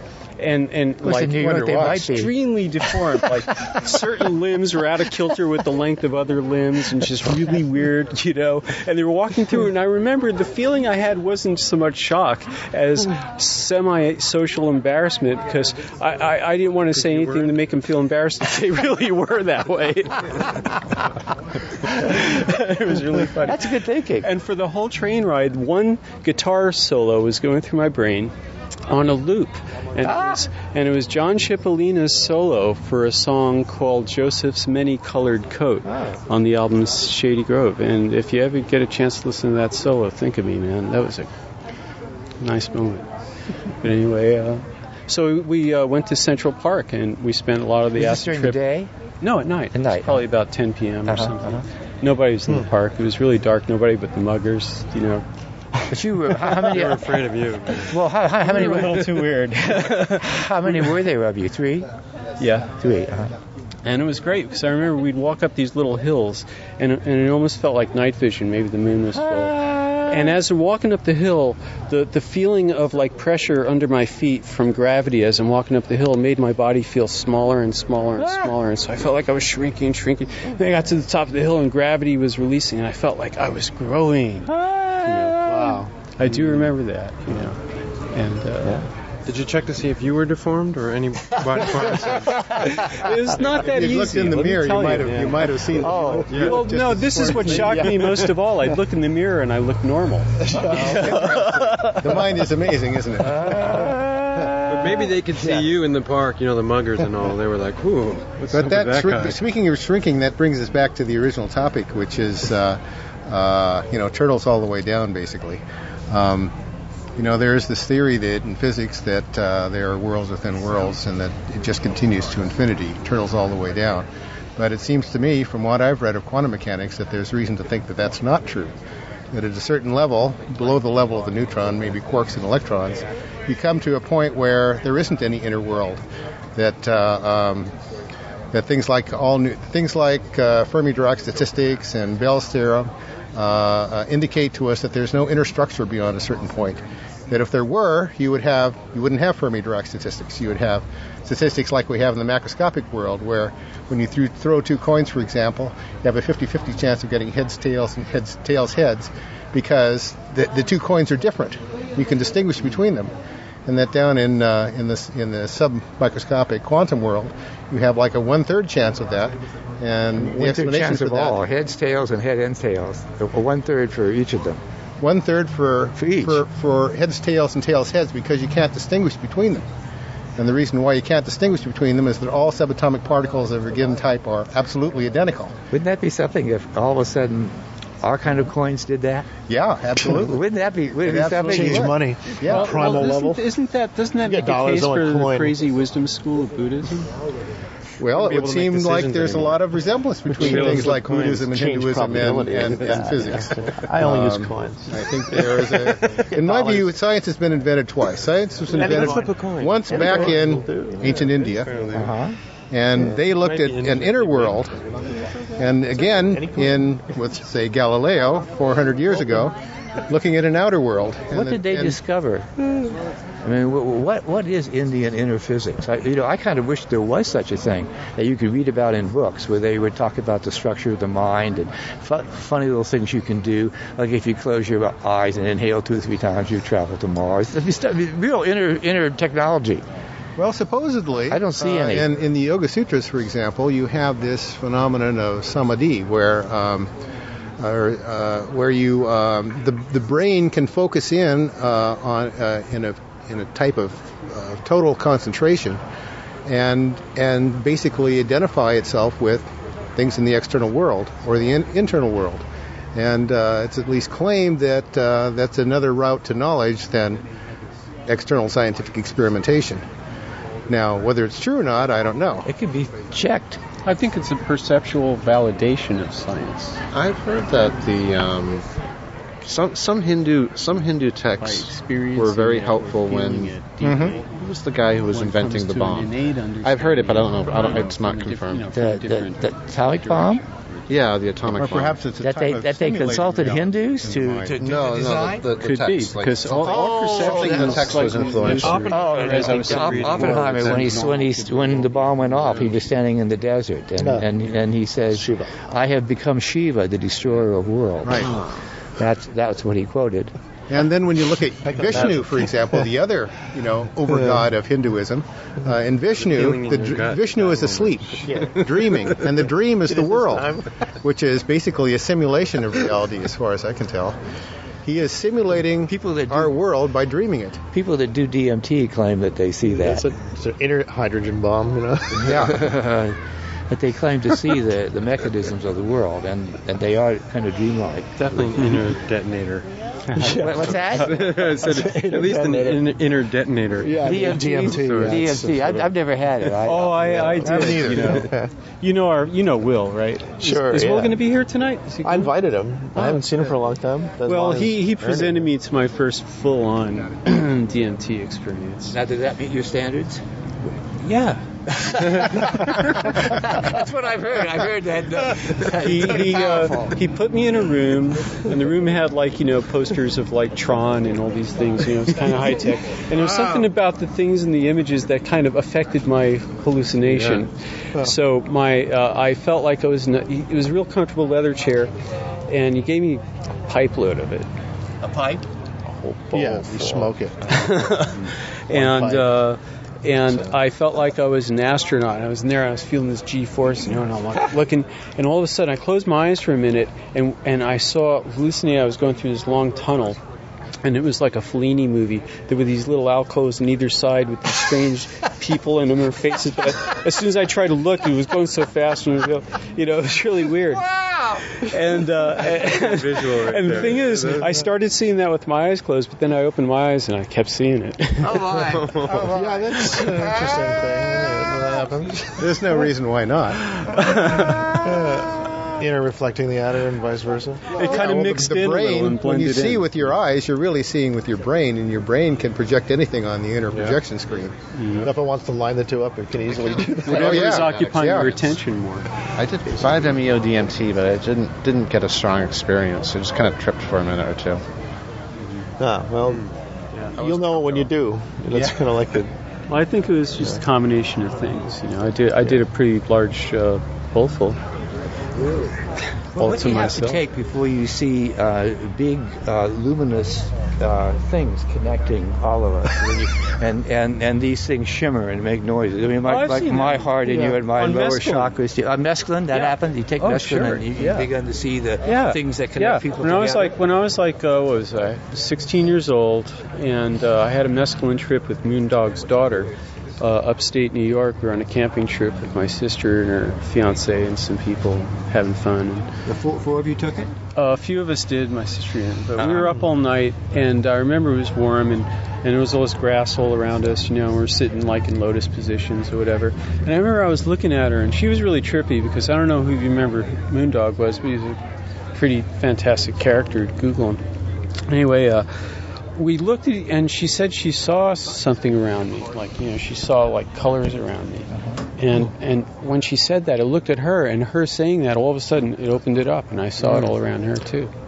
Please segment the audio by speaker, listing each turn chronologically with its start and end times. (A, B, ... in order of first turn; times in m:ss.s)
0:00.4-0:20.7 A
0:01.0-0:03.8 B
0:01.4-0:02.0 C
0:21.9-0:28.3 A
0:23.4-0:24.3 B
0:28.9-0:41.3 A
0:30.0-0:30.4 B
0:35.8-0:36.2 B
0:42.4-0:43.1 A
0:43.8-0:48.6 A
0:48.0-0:48.9 B
0:49.2-0:55.2 A
0:49.7-0:50.2 B
0:51.1-0:51.6 B
0:55.9-0:59.3 B
0:56.5-0:58.0 D
0:58.4-1:00.9 A
0:59.8-1:01.9 B
1:02.4-1:02.7 A
1:02.8-1:03.3 B
1:03.8-1:25.5 A
1:09.1-1:10.4 B
1:18.2-1:18.6 B
1:24.5-1:25.8 B
1:25.5-1:25.9 E
1:26.0-1:28.9 A
1:29.3-1:32.7 D
1:31.5-1:33.1 B
1:32.9-1:35.5 A
1:33.6-1:38.2 C
1:35.0-1:35.3 D
1:35.8-1:36.5 B
1:36.3-1:36.7 D
1:36.3-1:41.9 A
1:40.5-1:43.9 C
1:43.2-1:45.7 B
1:44.7-1:49.4 D
1:48.5-1:56.5 C
1:57.2-2:08.8 C
2:09.3-2:16.0 C
2:16.6-2:17.7 C
2:18.5-2:43.1 C
2:43.7-2:51.4 C
2:50.2-2:54.6 B
2:55.0-2:59.7 C
2:56.0-2:56.4 B
3:00.4-3:05.5 C
3:05.7-3:09.3 B
3:09.5-3:12.8 C
3:10.2-3:12.0 B
3:11.1-3:13.4 E
3:12.4-3:17.1 A
3:14.2-3:15.6 E
3:18.0-3:32.0 C
3:18.2-3:19.6 A
3:20.3-3:26.9 E
3:20.4-3:21.1 A
3:28.7-3:31.3 E
3:28.7-3:29.2 D
3:29.9-3:30.2 D
3:31.9-3:32.4 B
3:32.7-3:34.8 C
3:33.3-3:34.7 D
3:35.6-3:39.6 C
3:36.0-3:36.9 E
3:40.1-3:42.0 C
3:41.3-3:42.5 B
3:43.4-3:59.9 B
4:00.4-4:06.9 C
4:01.3-4:02.1 B
4:07.6-4:15.8 C
4:16.5-4:27.2 C
4:28.1-4:29.8 C
4:30.7-4:32.5 C
4:32.4-4:33.6 B
4:33.8-4:36.8 A
4:36.9-4:38.7 F
4:39.4-4:43.6 F
4:41.4-4:44.2 A
4:43.8-4:44.2 C
4:44.3-4:48.7 F
4:45.1-4:50.6 A
4:48.7-4:50.4 B
4:50.9-4:52.1 F
4:51.5-4:54.6 C
4:52.2-4:55.6 B
4:54.6-4:59.0 F
4:55.6-5:01.2 A
4:56.6-4:58.2 B
4:58.6-5:02.6 D
4:58.8-5:08.4 B
5:04.0-5:04.3 E
5:05.1-5:05.5 E
5:08.0-5:08.3 C
5:09.0-5:10.3 B
5:10.7-5:24.2 C
5:11.7-5:12.5 E
5:14.1-5:14.4 E
5:16.2-5:19.0 D
5:18.2-5:18.7 E
5:19.9-5:20.7 E
5:24.8-5:27.6 C
5:25.9-5:26.6 B
5:27.7-5:30.1 B
5:29.6-5:32.6 E
5:32.2-5:32.6 C
5:32.4-5:33.2 B
5:33.7-5:38.8 B
5:38.2-5:45.4 D
5:40.2-5:41.3 E
5:40.4-5:41.3 B
5:41.8-5:42.7 A
5:41.9-5:42.6 E
5:43.8-5:46.0 E
5:44.0-5:47.6 B
5:46.6-5:52.3 A
5:47.4-5:48.3 C
5:47.4-5:48.5 E
5:50.4-5:51.2 E
5:52.0-5:55.5 E
5:53.0-5:53.2 A
5:54.2-5:59.0 A
5:58.9-6:00.2 B
6:01.0-6:01.4 A
6:01.7-6:07.0 B
6:02.1-6:02.4 A
6:05.6-6:21.9 A
6:17.1-6:17.5 E
6:22.5-6:24.5 A
6:25.0-6:25.5 B
6:26.1-6:40.2 A
6:26.3-6:27.7 E
6:28.7-6:29.4 E
6:40.8-6:50.9 A
6:50.7-6:51.4 B
6:51.5-6:58.4 A
6:52.4-6:54.6 D
6:58.2-7:00.6 B
6:58.6-6:59.3 D
6:59.2-7:02.6 E
7:02.4-7:03.7 C
7:03.8-7:04.7 A
7:04.4-7:07.8 E
7:07.7-7:10.0 A
7:07.8-7:14.6 C
7:14.8-7:15.1 A
7:14.9-7:17.6 E
7:16.8-7:19.1 A
7:16.9-7:18.3 C
7:19.4-7:24.6 F
7:25.8-7:26.5 E
7:27.1-7:29.3 E
7:27.2-7:27.8 B
7:29.7-7:34.6 A
7:36.4-7:53.8 B
7:36.4-7:37.2 A
7:46.2-7:48.5 A
7:49.5-7:51.3 A
7:52.0-8:06.1 A
8:06.3-8:07.3 B
8:07.6-8:21.6 A
8:09.4-8:09.8 B
8:22.1-8:24.2 A
8:24.9-8:25.5 A
8:26.2-8:37.9 A
8:36.8-8:37.1 B